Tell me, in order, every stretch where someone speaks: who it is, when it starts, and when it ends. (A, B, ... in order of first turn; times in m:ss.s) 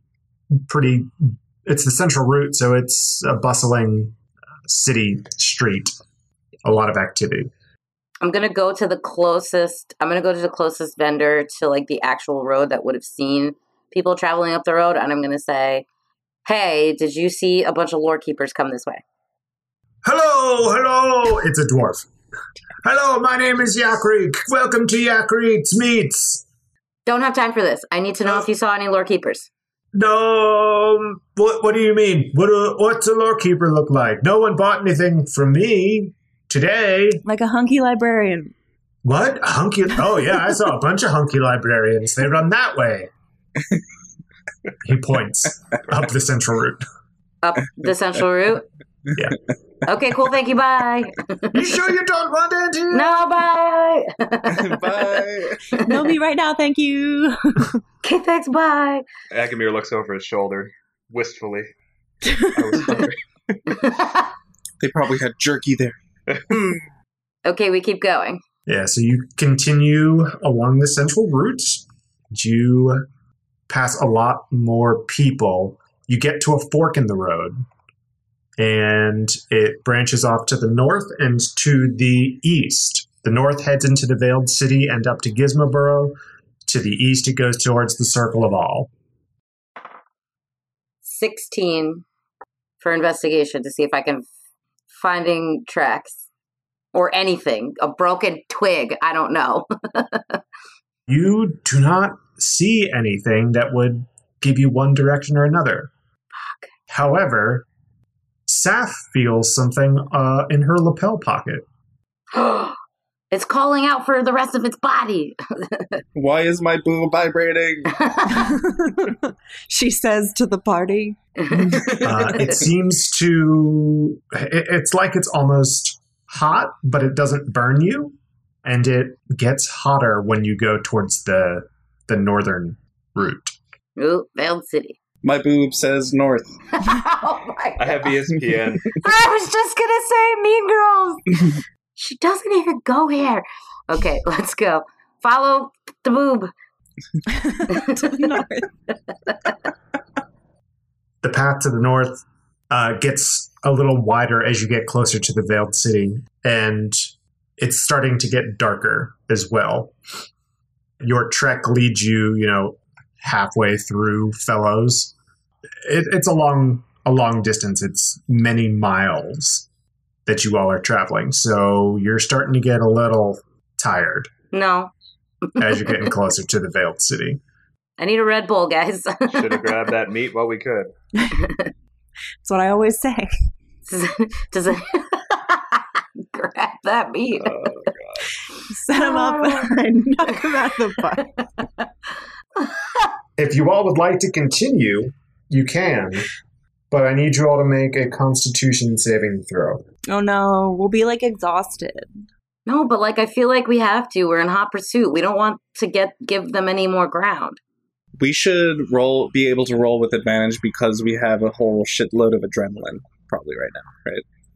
0:00.6-0:04.2 A
0:04.7-0:06.0 A
0:06.6-0:07.5 A
0:08.2-0:15.9 B
0:16.4-0:19.0 B
0:20.0-0:22.1 A
0:22.8-0:26.4 A
0:27.1-0:29.5 B
0:29.9-0:37.2 A
0:37.2-0:38.5 C
0:39.0-0:43.1 A
0:44.8-0:46.8 A
0:47.4-0:48.7 B
0:49.9-0:51.6 B
0:51.5-0:53.2 A
0:52.9-0:56.1 B
0:54.5-0:55.7 D
0:55.8-0:57.8 C
0:58.0-0:59.0 B
0:59.3-1:01.7 E
1:02.2-1:02.7 C
1:02.5-1:03.2 E
1:03.7-1:04.3 B
1:04.8-1:06.0 D
1:07.4-1:08.4 B
1:08.7-1:13.0 A
1:13.7-1:17.7 A
1:18.6-1:28.9 A
1:31.0-1:32.0 B
1:32.8-1:34.3 B
1:34.9-1:36.2 B
1:36.9-1:40.4 B
1:41.1-1:45.9 A
1:46.9-1:47.7 A
1:48.5-1:51.7 A
1:52.3-1:52.8 B
1:53.3-1:56.0 B
1:56.2-1:58.0 D
1:58.0-1:58.5 B
1:58.3-2:01.2 C
2:01.4-2:02.1 B
2:01.8-2:02.1 D
2:02.0-2:13.6 A
2:14.0-2:15.0 B
2:15.2-2:16.6 D
2:16.8-2:18.1 B
2:17.8-2:19.0 E
2:18.9-2:26.5 B
2:27.3-2:28.7 C
2:27.7-2:28.2 B
2:31.2-2:40.0 A
2:41.0-2:45.2 A
2:45.8-2:49.7 A
2:50.3-2:54.3 A
2:54.5-2:54.9 B
2:55.5-2:56.1 B
2:55.6-2:57.4 A
2:58.0-2:59.8 B
2:59.3-3:00.9 E
3:01.2-3:01.5 C
3:01.4-3:01.7 B
3:02.4-3:03.3 C
3:03.9-3:07.7 B
3:07.4-3:08.3 E
3:08.7-3:11.4 C
3:08.9-3:09.7 B
3:11.2-3:11.8 B
3:12.6-3:13.0 B
3:13.4-3:16.3 A
3:16.9-3:19.8 A
3:20.1-3:22.1 C
3:22.7-3:27.6 B
3:28.2-3:34.2 D